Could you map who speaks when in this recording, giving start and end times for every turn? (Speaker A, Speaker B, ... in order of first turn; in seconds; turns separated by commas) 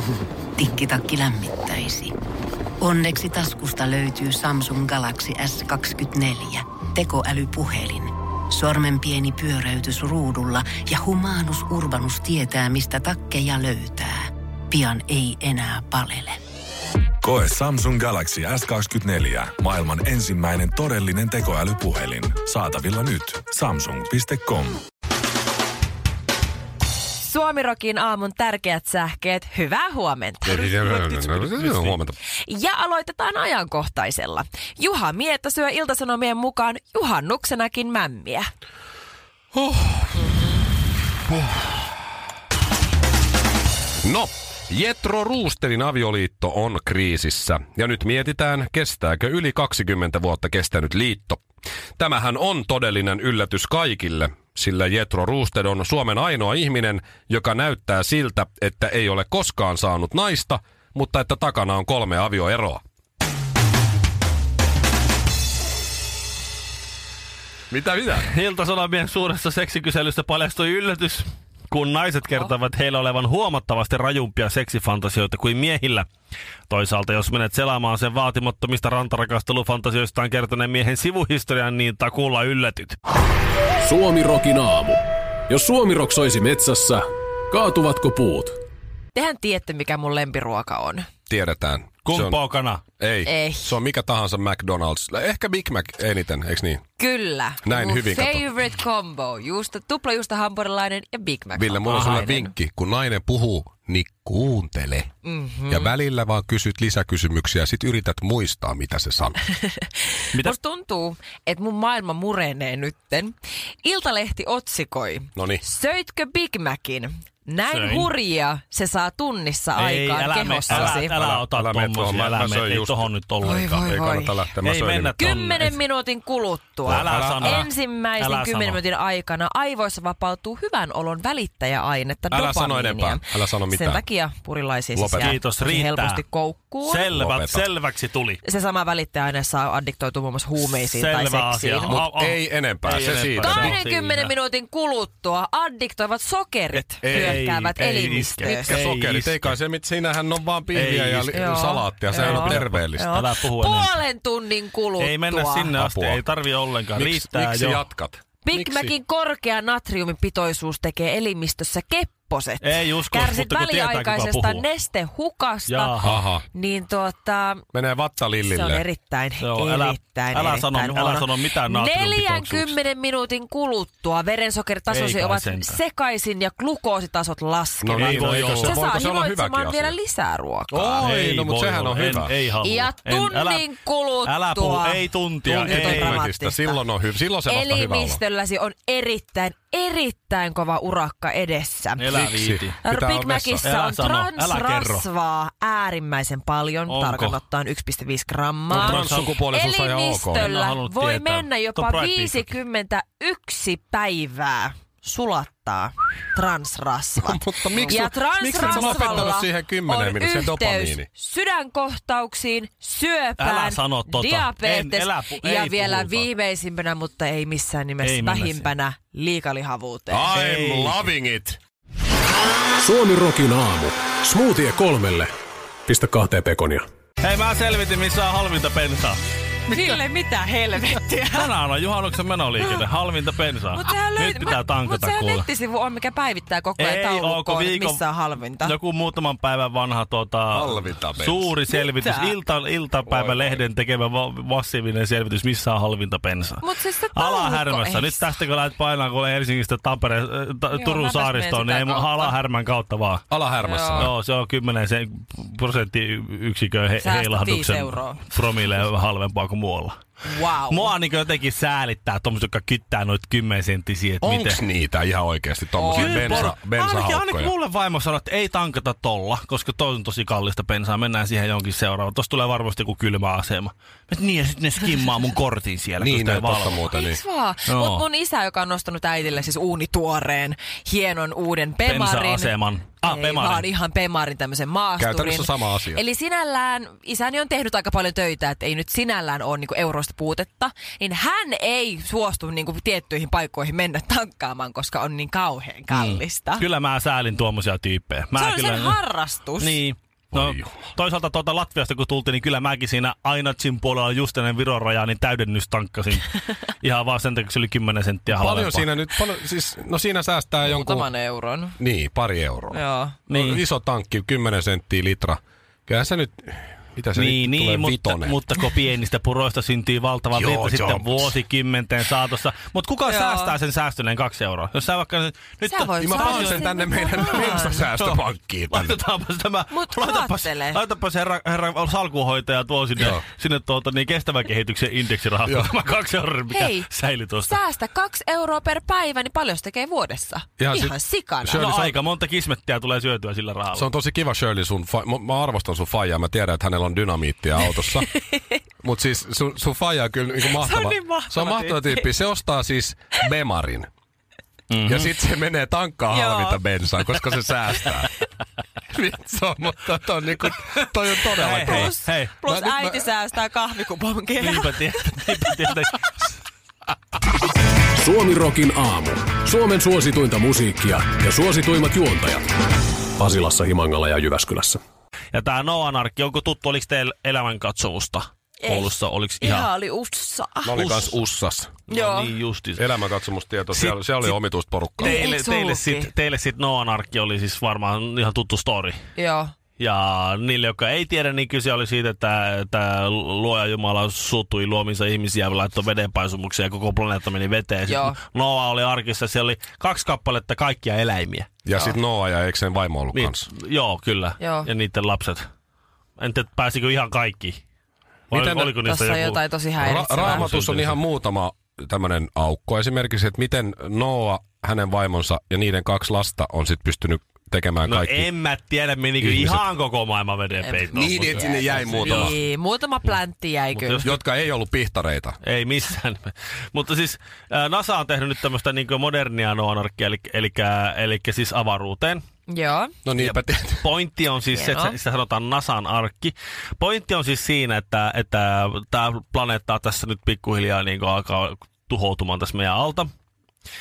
Speaker A: 0.6-2.1, Speaker A: 2.8-16.4, Speaker B: 17.2-24.8, Speaker C: 27.2-31.1, Speaker D: 30.4-32.1, Speaker E: 31.1-32.0, Speaker C: 32.4-38.5, Speaker D: 39.5-40.1, Speaker C: 40.2-40.5, Speaker D: 44.0-51.4, Speaker D: 52.0-62.8, Speaker D: 67.7-68.3, Speaker E: 68.2-76.1, Speaker E: 76.7-83.0, Speaker F: 83.8-88.5, Speaker C: 89.1-91.1, Speaker D: 91.3-92.4, Speaker E: 92.0-92.8, Speaker D: 93.0-96.8, Speaker C: 93.2-93.8, Speaker C: 97.0-102.5, Speaker D: 97.6-98.4, Speaker D: 101.5-105.1, Speaker C: 105.2-105.9, Speaker D: 105.7-109.4, Speaker C: 110.3-121.2, Speaker D: 115.3-115.6, Speaker E: 117.7-118.1, Speaker E: 119.8-123.6, Speaker D: 120.7-125.3, Speaker C: 123.4-124.5, Speaker E: 124.6-125.8, Speaker C: 125.2-137.1, Speaker D: 126.8-127.7, Speaker E: 126.9-128.8, Speaker D: 132.3-134.0, Speaker D: 134.9-135.4, Speaker E: 135.2-136.2, Speaker E: 136.8-138.4, Speaker D: 137.1-137.7, Speaker C: 138.4-142.0, Speaker E: 140.6-144.3, Speaker D: 141.9-143.8, Speaker C: 143.4-148.8, Speaker E: 146.7-149.6, Speaker D: 147.0-147.4, Speaker D: 148.6-153.2, Speaker E: 150.7-151.5, Speaker C: 151.3-155.7, Speaker E: 152.1-154.0, Speaker E: 155.0-157.8, Speaker D: 155.7-156.2, Speaker D: 156.9-158.9, Speaker C: 158.4-167.7, Speaker E: 162.6-164.7, Speaker E: 165.7-166.2, Speaker D: 166.0-166.4, Speaker D: 167.7-168.8, Speaker C: 168.5-181.1, Speaker E: 169.4-172.8, Speaker E: 174.9-175.8, Speaker D: 177.8-180.0, Speaker E: 177.9-178.8, Speaker D: 180.7-182.3, Speaker E: 181.0-183.7, Speaker C: 182.6-186.8, Speaker E: 184.2-186.2, Speaker D: 185.4-188.2, Speaker C: 187.5-192.1, Speaker E: 192.0-192.8, Speaker D: 192.1-193.6, Speaker C: 192.8-220.3, Speaker E: 193.6-195.0, Speaker E: 196.9-197.4, Speaker E: 198.7-199.4, Speaker D: 198.7-200.5, Speaker E: 200.4-202.6, Speaker D: 207.2-211.1, Speaker E: 208.6-209.4, Speaker E: 213.4-216.3, Speaker E: 218.0-218.7, Speaker D: 220.1-221.6, Speaker E: 220.3-221.1, Speaker F: 222.8-225.3, Speaker F: 225.9-226.8, Speaker E: 227.2-229.2, Speaker C: 229.7-231.5, Speaker E: 231.3-235.5, Speaker C: 233.7-238.8, Speaker E: 236.8-238.0, Speaker E: 238.6-253.2, Speaker D: 240.5-241.5, Speaker C: 241.7-242.3, Speaker D: 243.2-243.5, Speaker C: 246.6-248.3, Speaker C: 250.7-252.3, Speaker D: 253.3-254.1, Speaker C: 253.6-254.1, Speaker E: 254.0-260.0, Speaker C: 257.0-258.3, Speaker C: 260.2-260.9, Speaker E: 260.7-264.6, Speaker D: 264.2-267.5, Speaker C: 265.8-266.5, Speaker E: 265.9-276.9, Speaker D: 276.0-277.2, Speaker C: 276.9-296.6, Speaker E: 277.7-278.0, Speaker E: 281.8-283.7, Speaker D: 285.0-286.0, Speaker E: 295.9-299.0, Speaker C: 298.3-299.8, Speaker E: 299.6-308.9, Speaker D: 300.3-300.7, Speaker D: 308.3-311.1, Speaker C: 310.6-311.8, Speaker D: 311.8-318.4, Speaker C: 312.7-313.2, Speaker E: 313.3-313.6, Speaker E: 317.2-326.7, Speaker D: 320.3-321.4, Speaker C: 323.1-323.6, Speaker C: 325.6-327.9, Speaker D: 326.0-329.0, Speaker E: 327.2-337.6, Speaker C: 329.7-330.8, Speaker D: 333.0-333.2, Speaker D: 335.5-335.7, Speaker C: 336.5-336.9, Speaker C: 337.4-341.6, Speaker D: 340.6-342.0, Speaker E: 341.6-343.9, Speaker D: 343.7-348.1, Speaker C: 347.6-348.5, Speaker D: 348.8-353.9, Speaker C: 350.4-352.1, Speaker E: 354.7-355.1, Speaker D: 354.8-358.1, Speaker C: 356.1-356.6, Speaker D: 358.9-363.1, Speaker E: 361.4-362.3, Speaker C: 361.4-365.4, Speaker E: 364.4-366.0, Speaker F: 368.0-372.5, Speaker F: 373.2-374.8, Speaker E: 375.3-379.7, Speaker C: 378.6-380.8, Speaker D: 380.6-381.8, Speaker E: 380.7-381.2, Speaker E: 381.9-382.9, Speaker C: 381.9-382.3, Speaker D: 382.8-385.2, Speaker E: 383.7-384.4, Speaker E: 385.0-389.0, Speaker C: 385.0-386.1, Speaker C: 389.2-389.5, Speaker E: 389.8-401.6, Speaker C: 397.9-398.2, Speaker D: 401.6-403.5, Speaker C: 401.7-402.0, Speaker E: 403.1-405.4, Speaker C: 404.4-404.7, Speaker E: 406.2-407.6, Speaker E: 408.3-409.4, Speaker D: 408.3-408.8, Speaker C: 408.8-410.5, Speaker D: 409.8-418.3, Speaker E: 410.2-411.0, Speaker E: 417.9-422.4, Speaker D: 419.2-419.6, Speaker C: 420.6-424.1, Speaker D: 420.9-422.4, Speaker E: 423.7-424.2, Speaker D: 424.0-425.4, Speaker E: 425.4-432.2, Speaker C: 432.5-432.9, Speaker D: 433.1-433.8, Speaker E: 433.2-443.1, Speaker C: 434.5-435.0